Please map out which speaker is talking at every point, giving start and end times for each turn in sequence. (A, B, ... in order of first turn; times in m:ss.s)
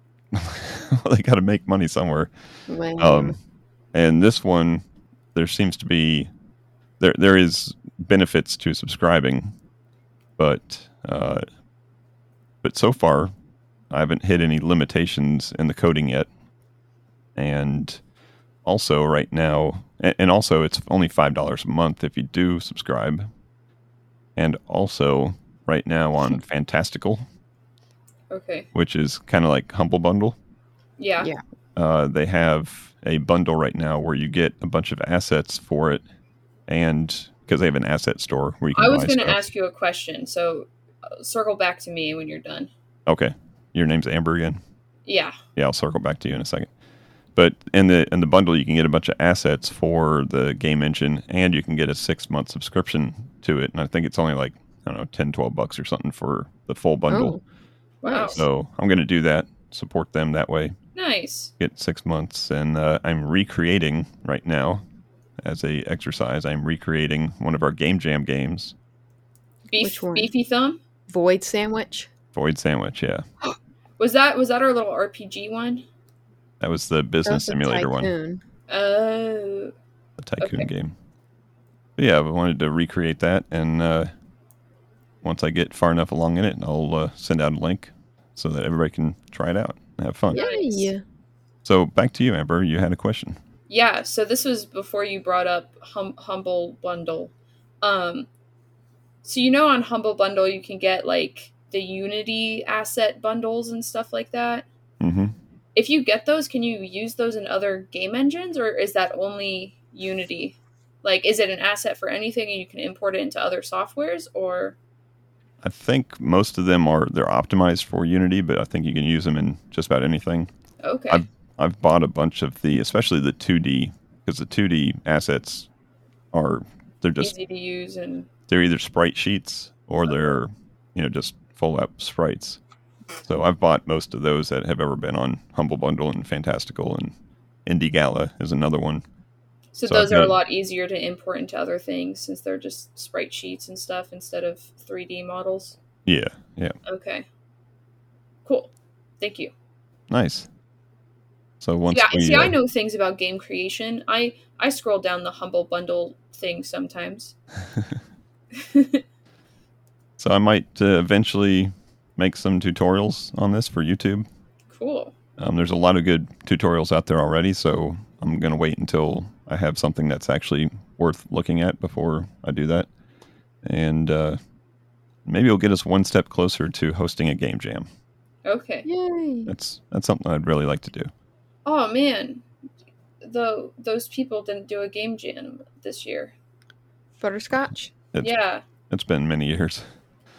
0:00.3-0:02.3 A
0:02.7-0:03.4 B
0:03.0-0:03.4 A
0:03.9-0:04.8 A
0:05.4-0:06.3 A
0:07.0-0:09.5 A
0:10.4-0:11.4 A
0:12.6-0:13.3 A
0:13.9-0:16.3 A
0:17.4-0:18.0 A
0:18.6-0:23.3 A
0:24.4-0:27.2 A
0:28.3-0:28.7 C
0:28.7-0:30.4 A
0:31.0-0:31.3 C
0:31.8-0:36.0 A
0:36.7-0:39.4 A
0:38.7-0:42.7 C
0:43.1-0:44.6 A
0:45.1-0:45.4 C
0:45.6-0:46.7 A
0:47.4-0:57.4 A
0:57.1-0:57.4 B
0:58.0-0:58.4 C
0:58.0-0:58.4 B
0:58.3-1:00.8 A
1:01.0-1:01.5 C
1:01.6-1:04.8 A
1:05.4-1:08.7 A
1:09.7-1:10.8 C
1:09.8-1:10.3 B
1:11.1-1:12.1 B
1:12.3-1:13.2 A
1:14.0-1:15.8 C
1:16.6-1:18.1 A
1:17.2-1:18.4 B
1:18.7-1:19.7 C
1:20.2-1:20.9 A
1:20.4-1:20.7 C
1:22.0-1:24.1 A
1:25.2-1:30.4 A
1:30.3-1:31.0 B
1:30.3-1:30.9 C
1:31.6-1:33.4 A
1:33.7-1:37.3 C
1:37.8-1:38.3 C
1:39.2-1:44.7 C
1:45.0-1:45.3 A
1:45.8-1:54.8 C
1:55.6-2:00.5 A
2:00.8-2:01.2 C
2:01.1-2:05.7 A
2:06.3-2:07.4 A
2:07.2-2:08.3 C
2:08.5-2:12.6 A
2:13.2-2:17.1 A
2:17.7-2:19.0 A
2:19.8-2:25.8 C
2:19.9-2:20.4 A
2:26.1-2:26.8 A
2:26.8-2:27.3 C
2:28.5-2:29.5 C
2:30.1-2:30.5 A
2:31.6-2:32.6 A
2:31.9-2:37.3 C
2:38.6-2:39.0 C
2:40.2-2:44.3 A
2:44.7-2:45.1 C
2:45.4-2:52.9 A
2:53.6-2:54.4 A
2:55.3-2:57.9 A
2:58.4-2:58.9 C
2:58.8-2:59.5 B
2:59.5-3:01.1 A
3:01.6-3:02.4 C
3:03.2-3:06.3 C
3:07.2-3:07.9 B
3:08.2-3:08.6 C
3:08.9-3:09.8 A